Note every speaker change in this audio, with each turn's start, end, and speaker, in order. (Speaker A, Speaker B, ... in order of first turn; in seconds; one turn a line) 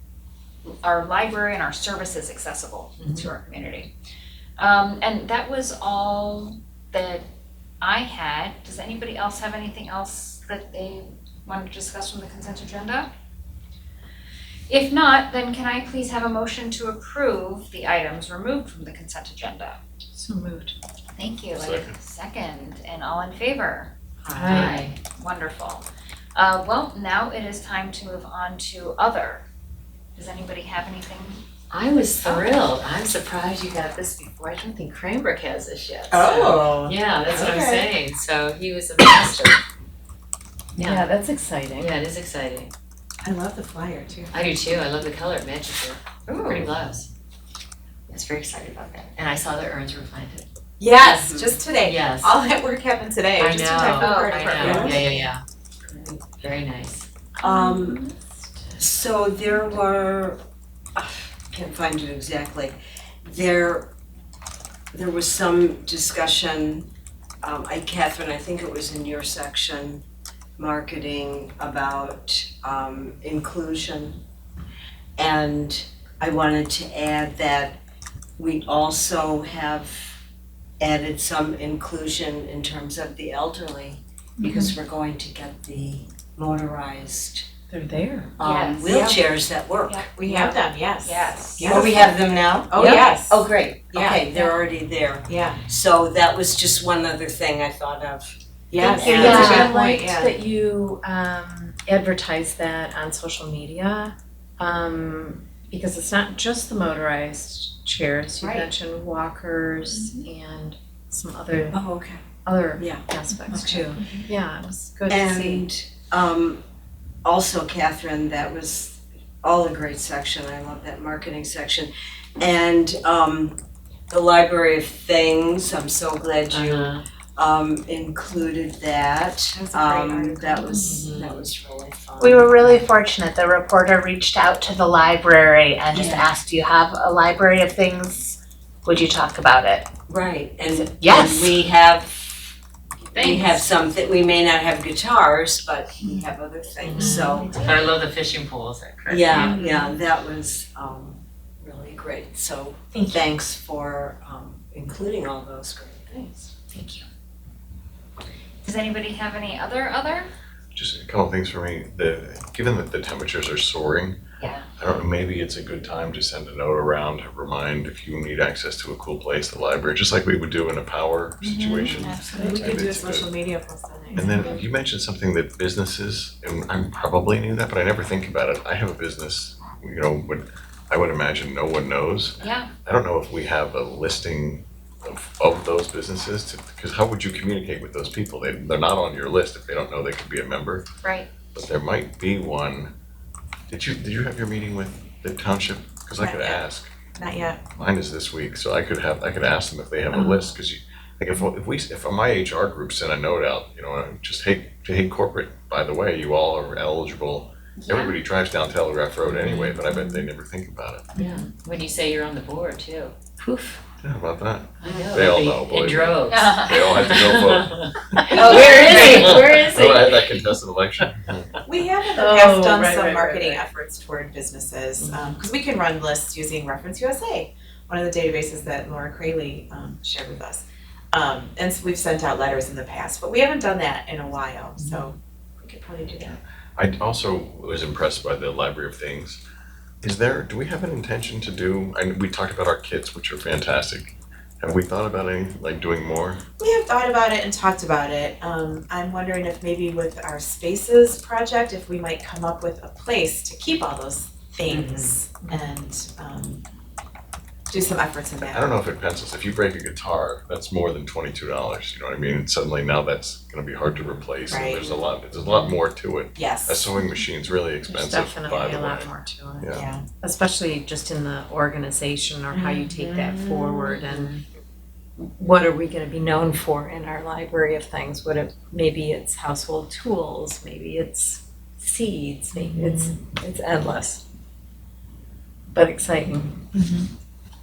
Speaker A: 0.8-3.9
Speaker A: 4.6-7.3
Speaker A: 7.8-13.1
Speaker A: 14.7-19.8
Speaker B: 20.1-20.8
Speaker A: 21.1-29.4
Speaker C: 21.6-22.0
Speaker D: 24.3-25.0
Speaker B: 24.3-24.9
Speaker A: 30.2-31.4
Speaker D: 31.7-39.6
Speaker A: 32.2-32.5
Speaker E: 36.1-37.9
Speaker B: 40.8-42.0
Speaker D: 41.8-42.7
Speaker E: 43.2-44.4
Speaker D: 44.3-47.1
Speaker A: 46.3-46.7
Speaker D: 48.1-50.5
Speaker E: 50.8-55.1
Speaker F: 51.1-51.6
Speaker D: 51.8-52.3
Speaker D: 53.4-55.4
Speaker A: 54.0-55.1
Speaker F: 54.6-55.1
Speaker D: 56.1-57.1
Speaker F: 57.4-58.0
Speaker B: 57.7-58.4
Speaker F: 58.8-60.4
Speaker F: 61.0-63.9
Speaker F: 64.9-66.9
Speaker F: 67.4-70.0
Speaker F: 70.6-74.2
Speaker F: 75.2-77.8
Speaker F: 78.4-80.2
Speaker F: 80.8-87.5
Speaker B: 87.7-88.3
Speaker F: 88.4-90.1
Speaker A: 88.4-88.9
Speaker E: 88.9-89.2
Speaker A: 89.9-91.8
Speaker E: 90.1-92.2
Speaker F: 91.6-99.7
Speaker E: 92.7-94.2
Speaker E: 95.3-95.6
Speaker E: 98.7-100.3
Speaker B: 99.0-111.8
Speaker F: 108.4-108.7
Speaker F: 111.7-112.2
Speaker B: 112.4-115.7
Speaker F: 112.8-113.9
Speaker F: 115.1-116.6
Speaker F: 117.2-132.8
Speaker D: 126.5-127.0
Speaker E: 129.6-131.0
Speaker D: 130.8-131.4
Speaker G: 132.2-139.9
Speaker F: 135.9-136.3
Speaker F: 140.1-142.5
Speaker G: 140.7-141.6
Speaker F: 143.1-147.6
Speaker A: 143.1-143.6
Speaker D: 146.9-149.7
Speaker F: 149.1-156.5
Speaker B: 152.9-153.4
Speaker A: 156.7-157.1
Speaker A: 158.6-160.3
Speaker C: 160.8-164.2
Speaker C: 164.8-173.3
Speaker E: 171.4-174.6
Speaker A: 171.8-172.7
Speaker C: 174.1-190.9
Speaker A: 182.4-182.7
Speaker A: 191.0-191.3
Speaker C: 191.5-192.9
Speaker C: 193.7-196.9
Speaker E: 196.2-197.6
Speaker C: 197.8-211.1
Speaker A: 207.8-208.2
Speaker D: 209.3-209.7
Speaker D: 211.2-213.8
Speaker C: 214.0-221.6
Speaker D: 214.8-220.3
Speaker A: 216.3-216.8
Speaker E: 218.3-219.1
Speaker A: 218.3-219.8
Speaker E: 221.7-236.4
Speaker B: 222.1-223.6
Speaker C: 236.2-239.4
Speaker C: 240.0-246.4
Speaker E: 246.6-256.6
Speaker F: 254.7-255.1
Speaker E: 257.7-258.8
Speaker C: 258.4-269.9
Speaker E: 264.5-265.0
Speaker E: 266.4-266.9
Speaker B: 267.9-274.4
Speaker E: 269.7-270.1
Speaker B: 275.2-284.2
Speaker B: 285.7-286.6